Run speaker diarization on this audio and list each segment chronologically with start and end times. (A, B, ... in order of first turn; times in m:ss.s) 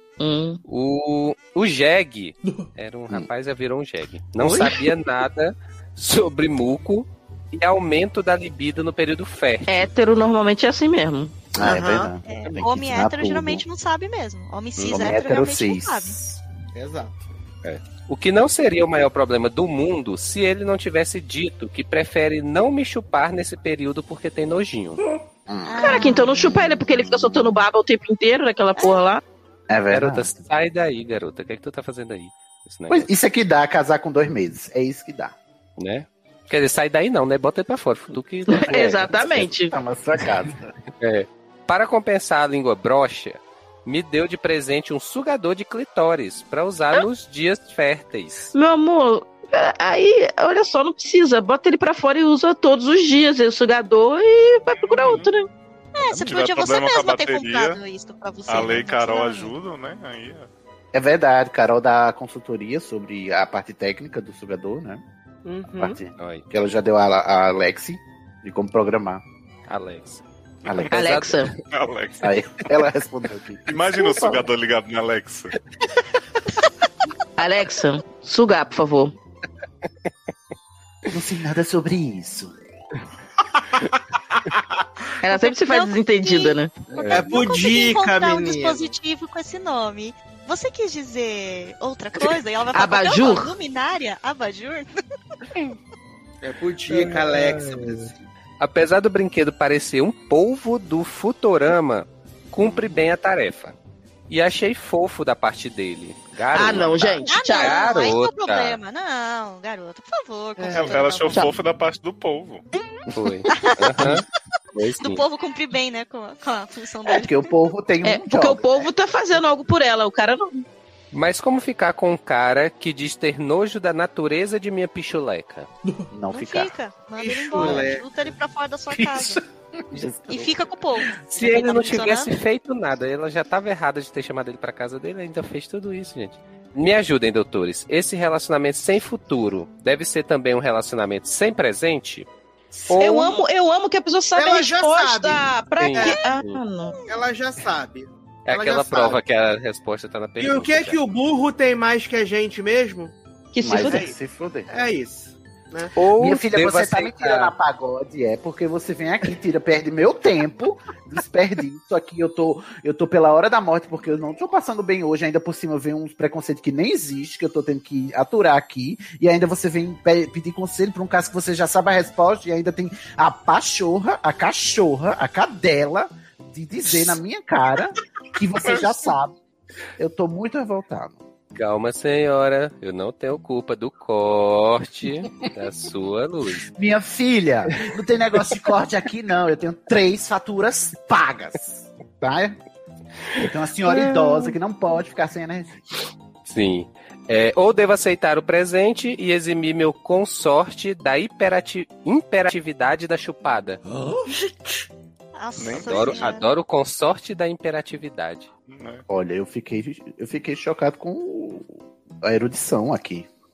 0:00.2-0:00.6 A
0:00.6-0:09.9 B
0:04.4-0:04.8 C
0:09.7-0:11.4 A
0:11.5-0:13.6 C
0:11.6-0:12.1 D
0:12.2-0:16.2 E
0:14.8-0:15.1 B
0:14.9-0:16.4 C
0:16.7-0:17.2 D
0:17.6-0:25.0 B
0:25.5-0:27.6 C
0:25.7-0:26.5 E
0:25.8-0:29.2 A
0:28.8-0:29.0 E
0:29.7-0:30.4 C
0:29.9-0:33.1 B
0:32.9-0:35.4 C
0:35.8-0:39.4 B
0:38.5-0:39.7 A
0:38.6-0:40.7 C
0:41.0-0:48.5 B
0:48.5-0:55.5 A
0:54.8-0:55.3 F
0:56.0-0:59.5 E
0:56.1-0:57.8 F
0:58.5-1:00.5 F
1:00.9-1:05.0 C
1:05.4-1:06.0 D
1:05.8-1:09.2 C
1:06.1-1:06.4 B
1:09.7-1:10.2 B
1:10.6-1:11.3 C
1:10.6-1:10.9 F
1:10.9-1:11.5 A
1:10.9-1:11.6 B
1:11.7-1:12.3 F
1:12.2-1:14.5 C
1:13.7-1:15.5 F
1:17.4-1:19.1 A
1:21.1-1:22.5 C
1:25.2-1:26.7 A
1:25.3-1:34.9 E
1:27.0-1:27.4 B
1:27.1-1:28.9 D
1:32.7-1:33.5 A
1:36.4-1:38.2 D
1:38.6-1:43.7 B
1:42.6-1:42.9 C
1:44.3-1:48.8 B
1:46.5-1:48.1 A
1:47.3-1:51.4 E
1:50.6-1:51.0 D
1:50.7-1:52.6 F
1:53.1-1:55.2 B
1:53.5-1:53.9 E
1:55.0-1:57.5 E
1:57.1-1:58.9 C
1:58.0-2:00.6 A
2:01.1-2:05.7 B
2:06.1-2:06.7 C
2:06.3-2:09.4 E
2:07.2-2:08.1 D
2:07.6-2:07.8 C
2:08.9-2:10.5 C
2:09.9-2:10.3 B
2:10.3-2:12.4 E
2:11.2-2:22.3 B
2:22.8-2:23.4 B
2:22.9-2:27.0 A
2:24.3-2:26.1 D
2:25.8-2:26.6 B
2:27.1-2:29.2 D
2:28.4-2:31.0 B
2:30.4-2:33.1 D
2:33.5-2:34.0 A
2:33.6-2:34.7 C
2:33.8-2:34.2 D
2:34.7-2:36.0 D
2:36.0-2:37.5 B
2:36.1-2:59.3 C
2:58.7-2:59.0 F
3:00.0-3:01.2 C
3:01.5-3:06.7 B
3:06.7-3:12.6 C
3:13.4-3:15.8 C
3:16.4-3:23.8 B
3:25.4-3:26.5 E
3:25.6-3:26.3 F
3:25.7-3:28.5 B
3:28.7-3:29.0 F
3:29.1-3:33.3 C